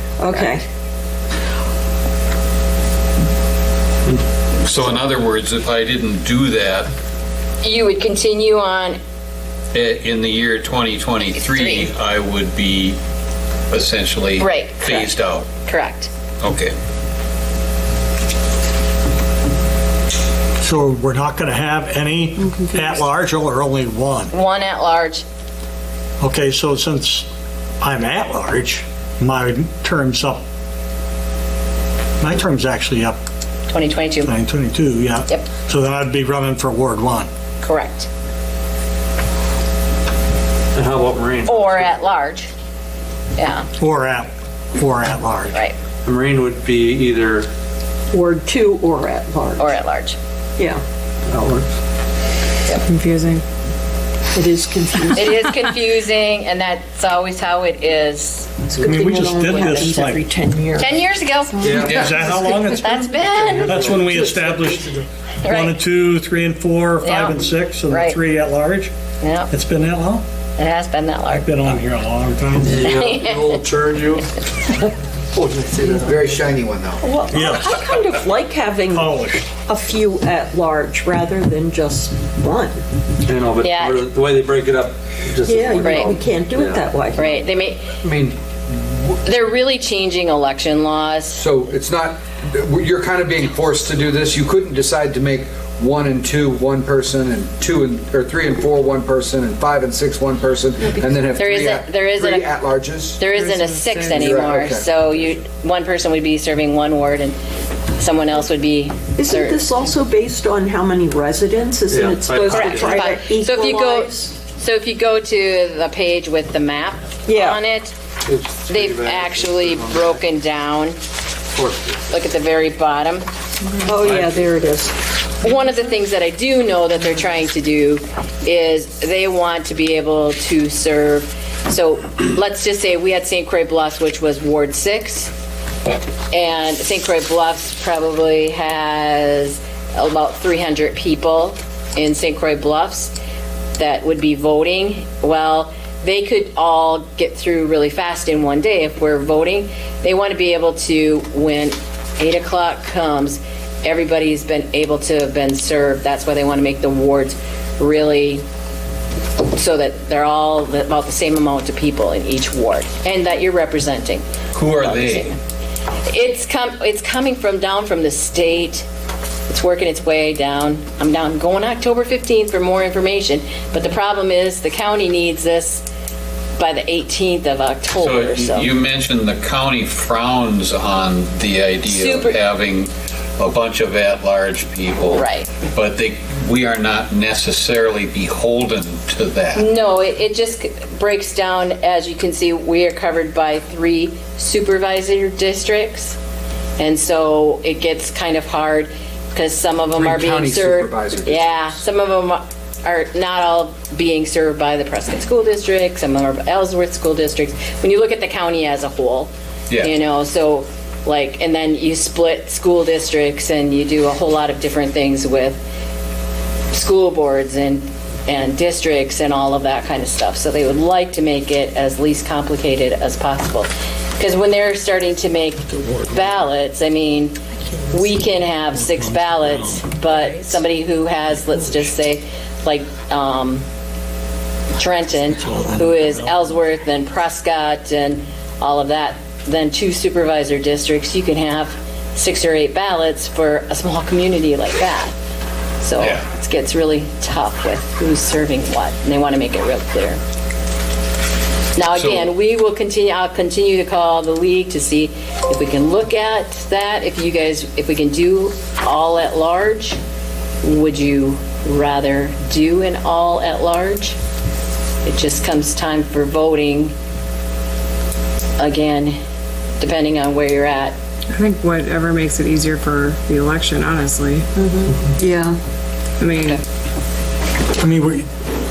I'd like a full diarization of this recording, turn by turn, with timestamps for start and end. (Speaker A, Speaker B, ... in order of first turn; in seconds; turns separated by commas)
Speaker A: 0.2-0.7, Speaker B: 4.6-6.9, Speaker C: 7.6-9.0, Speaker B: 9.7-13.0, Speaker C: 11.2-11.9, Speaker B: 13.7-15.5, Speaker C: 14.4-15.1, Speaker C: 15.6-16.1, Speaker B: 16.4-16.8, Speaker D: 20.6-24.3, Speaker C: 24.3-25.2, Speaker D: 26.2-27.3, Speaker D: 27.8-30.4, Speaker D: 32.2-33.2, Speaker C: 33.7-34.3, Speaker D: 34.2-37.3, Speaker C: 37.6-38.1, Speaker E: 40.7-42.1, Speaker C: 41.5-42.5, Speaker C: 43.4-43.7, Speaker D: 43.8-45.5, Speaker E: 46.0-47.5, Speaker A: 48.1-49.7, Speaker C: 49.6-50.2, Speaker E: 51.3-51.7, Speaker F: 52.9-53.4, Speaker A: 54.3-55.4, Speaker C: 55.2-60.0, Speaker A: 58.8-61.0, Speaker D: 58.8-60.2, Speaker C: 60.8-63.9, Speaker E: 61.6-62.6, Speaker D: 61.7-68.9, Speaker B: 61.7-62.1, Speaker E: 63.5-64.8, Speaker C: 65.4-65.8, Speaker C: 67.0-68.2, Speaker C: 69.2-69.5, Speaker D: 69.5-70.2, Speaker C: 70.6-71.5, Speaker D: 71.3-73.0, Speaker E: 72.6-74.3, Speaker C: 72.9-73.6, Speaker E: 75.3-76.5, Speaker G: 76.0-77.0, Speaker A: 77.0-82.8, Speaker D: 77.3-77.8, Speaker D: 78.9-79.5, Speaker E: 83.3-86.9, Speaker C: 83.6-84.0, Speaker A: 85.4-87.4, Speaker C: 85.8-86.1, Speaker C: 87.2-87.9, Speaker G: 88.0-88.4, Speaker C: 89.2-91.4, Speaker G: 91.3-103.2, Speaker C: 101.4-102.5, Speaker C: 103.2-107.4, Speaker F: 103.3-104.3, Speaker G: 104.1-104.9, Speaker C: 108.0-109.6, Speaker A: 109.2-114.3, Speaker E: 111.9-113.1, Speaker C: 112.5-117.9, Speaker A: 117.3-117.6, Speaker E: 118.3-120.2, Speaker C: 118.7-121.0, Speaker E: 121.5-122.0, Speaker C: 122.1-123.3, Speaker A: 123.8-125.0, Speaker E: 124.0-124.4, Speaker C: 125.4-135.3, Speaker C: 136.3-143.1, Speaker C: 143.8-158.4, Speaker C: 159.5-164.2, Speaker B: 164.5-165.3, Speaker C: 164.8-165.4, Speaker C: 166.1-168.8, Speaker C: 169.5-175.8, Speaker C: 176.6-178.7, Speaker B: 177.9-189.7, Speaker C: 181.8-182.4, Speaker C: 185.1-185.6, Speaker C: 189.5-196.2, Speaker C: 196.8-215.6, Speaker G: 199.9-201.8, Speaker C: 216.7-227.4, Speaker C: 227.9-233.6, Speaker C: 234.8-245.1, Speaker D: 235.5-236.0, Speaker C: 245.8-250.2, Speaker B: 246.0-246.3, Speaker C: 251.8-260.0, Speaker B: 251.9-252.3, Speaker C: 260.6-264.2, Speaker C: 265.1-266.9, Speaker C: 268.6-269.2, Speaker C: 269.8-270.9, Speaker F: 271.3-274.5, Speaker A: 274.6-275.6, Speaker F: 276.2-276.6, Speaker D: 277.8-278.3